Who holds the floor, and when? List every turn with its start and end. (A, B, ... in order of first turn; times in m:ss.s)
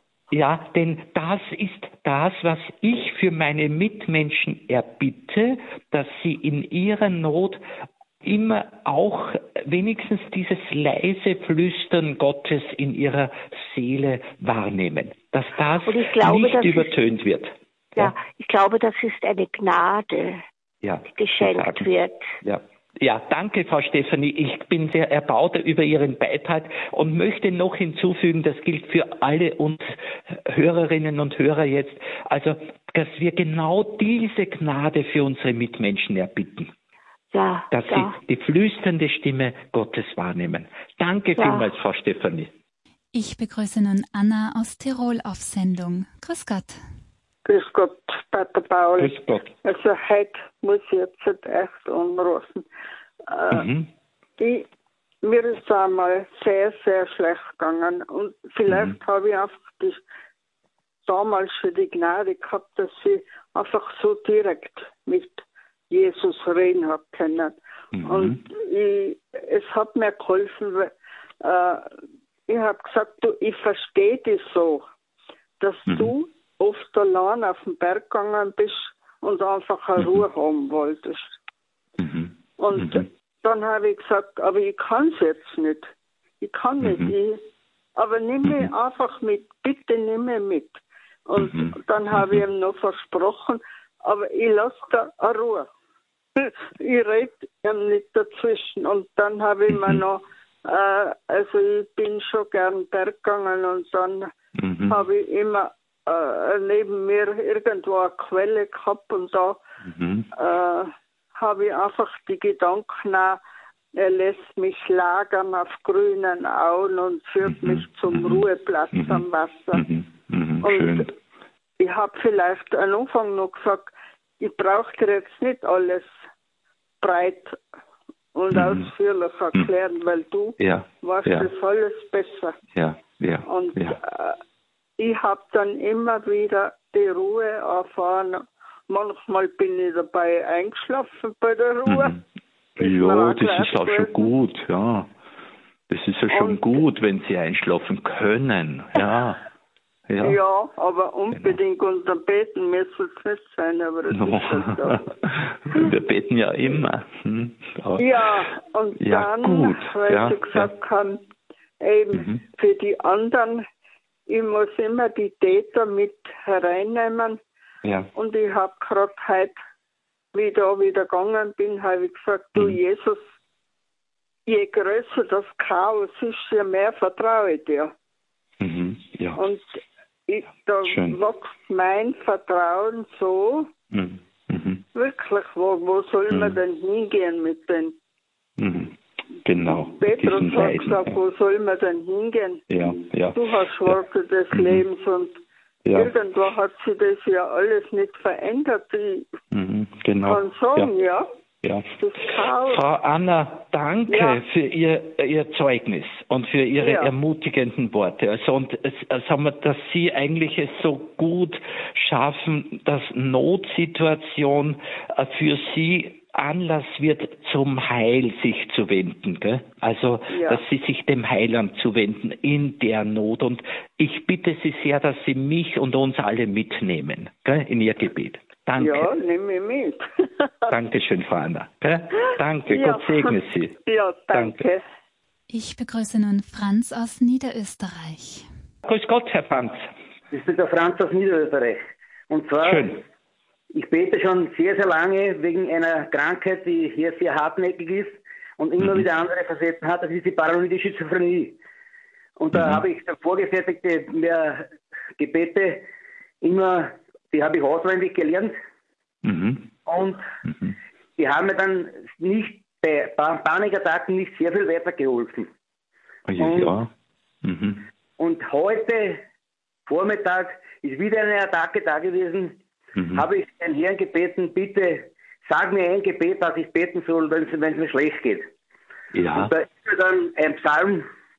0:00.3-0:07.6 A
0:08.2-0:18.2 A
0:15.8-0:16.9 B
0:18.0-0:20.4 B
0:20.8-0:21.9 A
0:21.1-0:22.4 B
0:22.4-0:36.7 A
0:37.3-0:38.2 B
0:37.7-0:42.5 A
0:41.4-0:41.7 B
0:43.1-0:46.8 C
0:47.5-0:52.6 D
0:49.0-0:49.5 A
0:53.3-0:53.7 D
0:53.5-0:53.9 A
0:54.4-0:54.7 D
0:55.2-1:00.0 D
0:58.7-0:59.0 A
1:01.0-1:11.9 D
1:08.0-1:08.4 A
1:12.5-1:14.8 D
1:15.6-1:21.3 D
1:15.9-1:16.1 A
1:20.0-1:20.2 A
1:22.0-1:23.1 A
1:22.6-1:25.9 D
1:26.4-1:27.4 D
1:26.8-1:27.1 A
1:28.0-1:35.7 D
1:31.4-1:32.4 A
1:36.4-1:44.3 D
1:39.7-1:40.0 A
1:44.6-1:45.0 A
1:44.9-1:49.6 D
1:49.8-1:50.3 A
1:50.3-1:53.4 D
1:54.0-1:59.8 D
1:57.4-2:01.1 A
2:00.6-2:01.1 D
2:01.8-2:06.1 D
2:07.0-2:07.6 D
2:08.4-2:12.6 D
2:08.5-2:08.9 A
2:10.6-2:11.5 A
2:12.8-2:14.0 A
2:13.4-2:14.4 D
2:15.0-2:22.2 D
2:21.9-2:22.2 A
2:22.8-2:24.3 D
2:22.8-2:25.1 A
2:25.9-2:29.4 A
2:26.3-2:26.8 D
2:30.1-2:30.4 A
2:30.2-2:35.1 D
2:34.1-2:38.1 A
2:38.0-2:41.2 D
2:39.0-2:40.7 A
2:41.8-2:43.6 D
2:42.1-2:42.4 A
2:44.3-2:47.4 D
2:47.8-2:48.1 A
2:48.2-2:49.6 D
2:50.3-2:53.2 D
2:54.5-2:57.9 D
2:58.6-2:59.4 A
2:59.4-3:03.7 D
3:00.8-3:01.2 A
3:03.9-3:04.8 A
3:04.9-3:08.0 D
3:06.3-3:06.6 A
3:08.6-3:11.2 A
3:09.6-3:15.4 D
3:12.7-3:14.0 A
3:14.5-3:14.8 A
3:15.9-3:16.1 A
3:15.9-3:19.3 D
3:19.5-3:20.9 A
3:20.2-3:21.3 D
3:21.6-3:21.9 A
3:22.0-3:22.9 D
3:22.6-3:49.1 A
3:24.1-3:24.4 D
3:26.8-3:27.1 D
3:40.3-3:40.6 D
3:48.8-3:50.7 D
3:50.7-3:53.8 A
3:52.7-3:54.8 D
3:54.3-3:54.6 A
3:55.5-3:58.5 C
3:58.8-3:59.9 A
4:00.3-4:01.8 E
4:02.3-4:03.0 E
4:02.6-4:03.0 A
4:03.7-4:11.6 E
4:08.8-4:09.0 A
4:12.4-4:15.8 E
4:12.5-4:12.8 A
4:16.4-4:18.5 E
4:19.2-4:19.7 A
4:19.8-4:20.2 E
4:20.5-4:20.8 A
4:21.2-4:25.5 E
4:26.3-4:26.9 A
4:26.4-4:26.8 E
4:27.4-4:27.8 A
4:28.2-4:29.2 E
4:29.9-4:32.6 E
4:33.0-4:33.2 A
4:33.1-4:38.5 E
4:39.1-4:39.5 A
4:39.4-4:41.0 E